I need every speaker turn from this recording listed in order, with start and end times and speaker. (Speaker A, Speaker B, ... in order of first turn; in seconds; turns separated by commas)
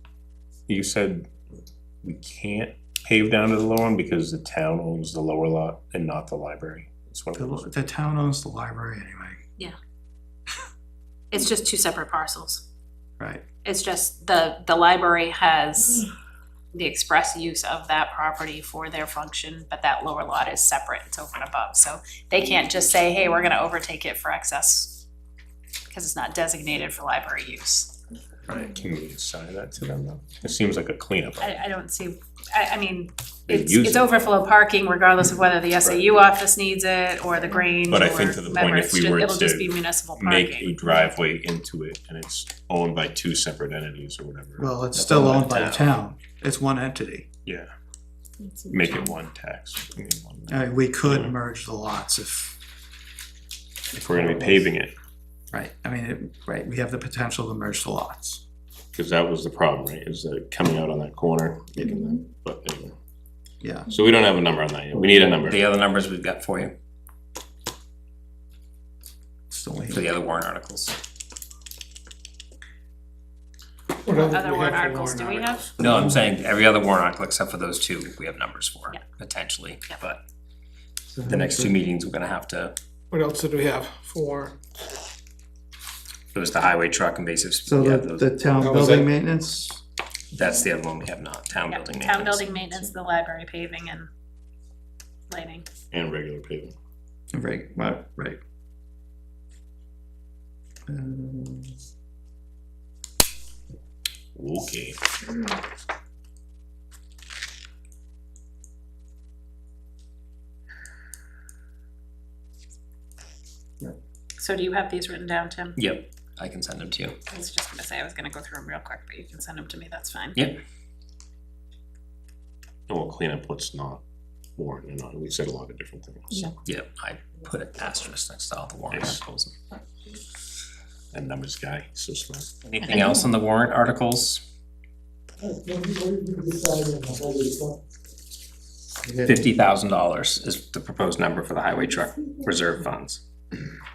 Speaker A: 0.7-1.3, Speaker A: 2.0-7.7, Speaker B: 7.3-9.4, Speaker C: 11.3-12.6, Speaker C: 13.6-16.1, Speaker C: 16.7-25.0, Speaker C: 25.9-27.9, Speaker A: 28.5-31.6, Speaker C: 31.4-40.7, Speaker A: 33.5-34.1, Speaker A: 37.9-44.7, Speaker B: 44.6-47.3, Speaker D: 44.9-45.6, Speaker A: 45.5-45.9, Speaker A: 48.7-51.3, Speaker B: 50.5-52.5, Speaker A: 53.9-54.9, Speaker B: 54.1-54.6, Speaker B: 55.5-58.4, Speaker A: 58.9-62.9, Speaker B: 63.6-63.9, Speaker A: 63.9-65.6, Speaker D: 65.1-66.7, Speaker B: 69.5-70.0, Speaker D: 69.9-71.0, Speaker E: 74.0-75.7, Speaker C: 74.1-75.7, Speaker D: 75.8-80.2, Speaker B: 75.8-76.2, Speaker B: 81.1-81.7, Speaker D: 81.2-82.7, Speaker E: 83.1-84.6, Speaker D: 86.3-88.3, Speaker B: 87.7-89.8, Speaker E: 88.6-89.1, Speaker D: 90.3-92.5, Speaker C: 91.7-94.1, Speaker C: 95.3-95.7, Speaker A: 95.9-96.7, Speaker B: 97.3-98.4, Speaker B: 100.9-101.7, Speaker A: 104.3-105.0, Speaker C: 114.4-115.8, Speaker D: 115.8-117.2, Speaker C: 117.3-120.5, Speaker A: 122.9-124.0, Speaker A: 124.6-126.5, Speaker D: 126.6-129.5, Speaker A: 128.9-129.2, Speaker A: 131.1-132.6, Speaker D: 132.6-134.4, Speaker B: 135.5-137.6, Speaker B: 139.1-139.3, Speaker D: 139.2-143.2